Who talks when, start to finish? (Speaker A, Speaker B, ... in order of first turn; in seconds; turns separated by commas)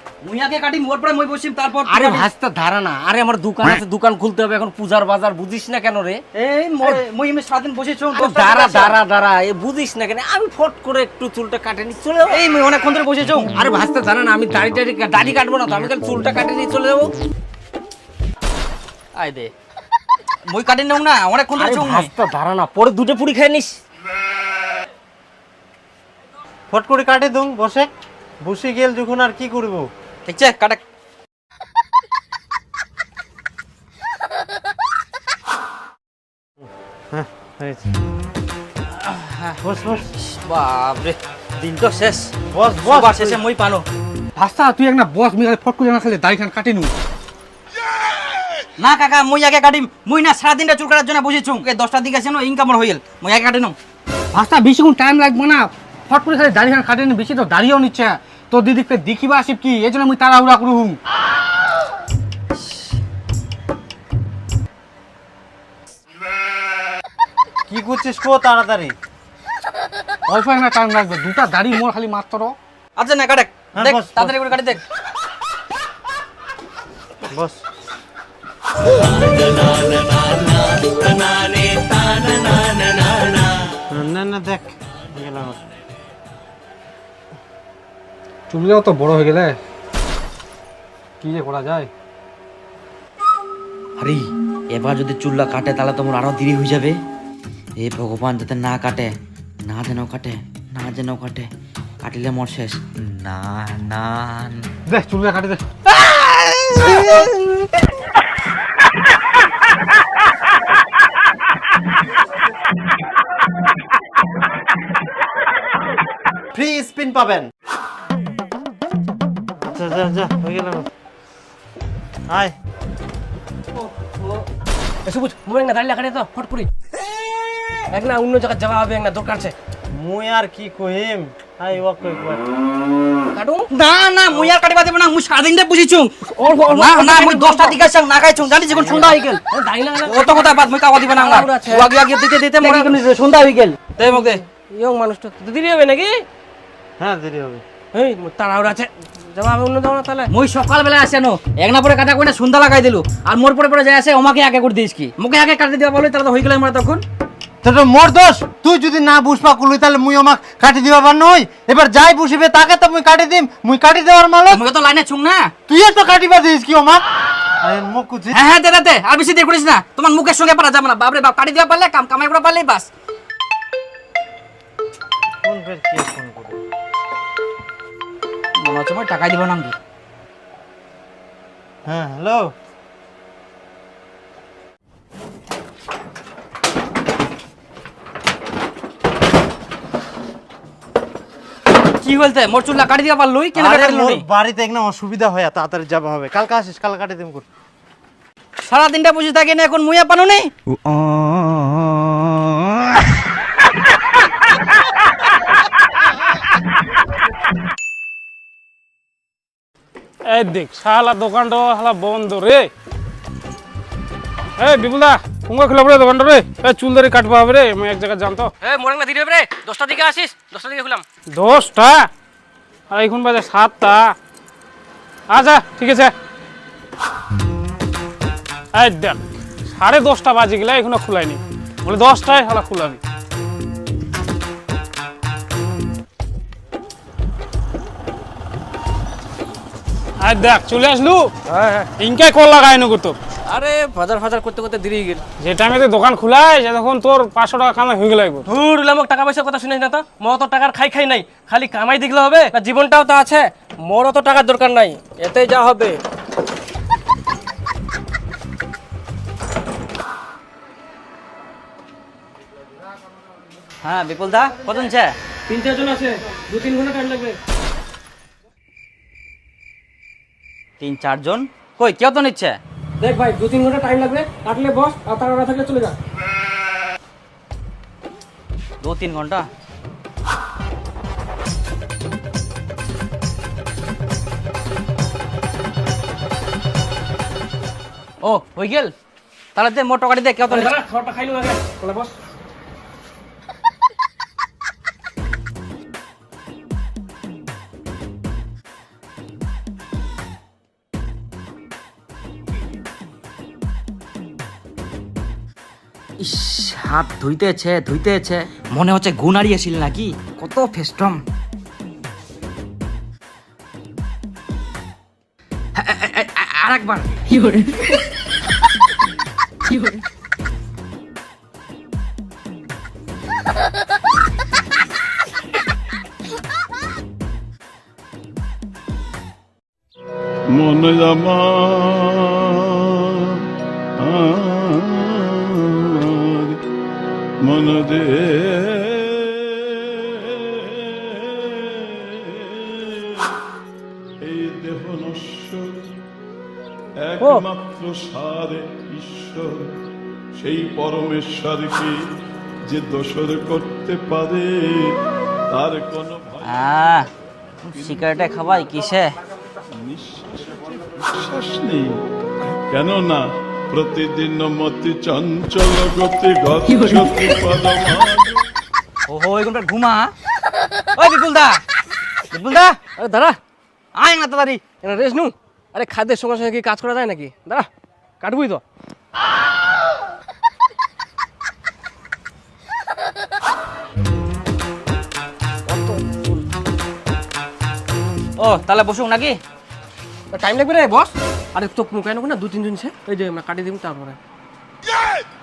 Speaker A: 0.2-2.3, Speaker B: 2.1-3.2, Speaker C: 3.0-6.2, Speaker A: 6.3-9.0, Speaker C: 8.2-12.4, Speaker A: 12.3-13.5, Speaker B: 13.5-14.7, Speaker C: 14.0-17.1, Speaker A: 19.2-19.5, Speaker A: 20.5-22.1, Speaker B: 21.6-23.0, Speaker C: 23.0-23.8, Speaker D: 26.7-27.9, Speaker D: 28.4-29.9, Speaker A: 30.2-30.8, Speaker D: 37.1-37.9, Speaker A: 39.0-39.5, Speaker D: 39.6-40.1, Speaker A: 40.2-42.3, Speaker D: 42.5-43.4, Speaker A: 42.8-43.8, Speaker B: 44.4-46.9, Speaker A: 48.8-53.7, Speaker B: 54.3-61.0, Speaker D: 67.7-68.9, Speaker B: 70.3-72.5, Speaker A: 73.0-74.8, Speaker D: 73.8-74.4, Speaker D: 77.2-77.6, Speaker D: 83.9-85.6, Speaker B: 88.5-89.6, Speaker B: 91.2-91.9, Speaker A: 94.0-97.0, Speaker A: 97.8-99.1, Speaker A: 99.7-101.5, Speaker A: 102.0-104.6, Speaker B: 104.9-105.6, Speaker D: 116.5-117.5, Speaker D: 119.6-120.9, Speaker D: 122.3-122.5, Speaker C: 124.1-124.4, Speaker C: 125.0-126.7, Speaker C: 127.9-129.5, Speaker D: 129.9-132.4, Speaker C: 133.3-133.7, Speaker A: 133.7-139.4, Speaker C: 136.4-137.8, Speaker C: 138.8-141.9, Speaker A: 140.0-144.4, Speaker C: 142.6-142.9, Speaker C: 144.0-146.2, Speaker D: 147.0-147.6, Speaker C: 147.9-150.3, Speaker A: 150.3-157.0, Speaker D: 157.6-164.6, Speaker A: 164.5-165.5, Speaker D: 165.7-167.0, Speaker D: 167.6-168.4, Speaker A: 168.3-172.9, Speaker D: 175.4-176.6, Speaker A: 178.6-179.7, Speaker D: 181.8-182.5, Speaker A: 192.0-194.2, Speaker D: 193.5-197.4, Speaker A: 198.7-200.5, Speaker E: 210.3-212.7, Speaker E: 214.6-218.5, Speaker C: 218.6-221.0, Speaker E: 221.3-222.1, Speaker E: 222.9-224.1, Speaker E: 225.3-226.1, Speaker E: 228.7-233.0, Speaker E: 240.2-243.2, Speaker C: 243.5-245.2, Speaker E: 245.4-248.4, Speaker C: 248.4-256.0, Speaker A: 263.8-265.1, Speaker C: 265.5-267.4, Speaker A: 270.8-272.6, Speaker C: 273.0-276.0, Speaker A: 278.8-279.4, Speaker A: 288.2-288.9, Speaker A: 289.5-290.7, Speaker C: 290.5-292.1, Speaker A: 306.2-311.2, Speaker A: 315.8-318.0, Speaker A: 319.7-320.0, Speaker F: 330.5-333.5, Speaker F: 334.0-336.6, Speaker F: 337.4-343.4, Speaker F: 344.2-345.9, Speaker F: 347.0-349.7, Speaker F: 350.4-351.9, Speaker F: 352.6-354.9, Speaker F: 355.6-356.7, Speaker A: 356.4-357.1, Speaker A: 357.6-359.1, Speaker F: 357.7-358.2, Speaker F: 359.8-362.0, Speaker F: 362.7-368.4, Speaker A: 369.1-370.1, Speaker A: 370.9-371.6, Speaker A: 372.3-372.8, Speaker C: 373.0-373.4, Speaker A: 373.9-374.6, Speaker C: 374.8-377.7, Speaker C: 378.2-378.6, Speaker C: 385.7-386.4, Speaker A: 388.4-389.4, Speaker C: 390.3-394.2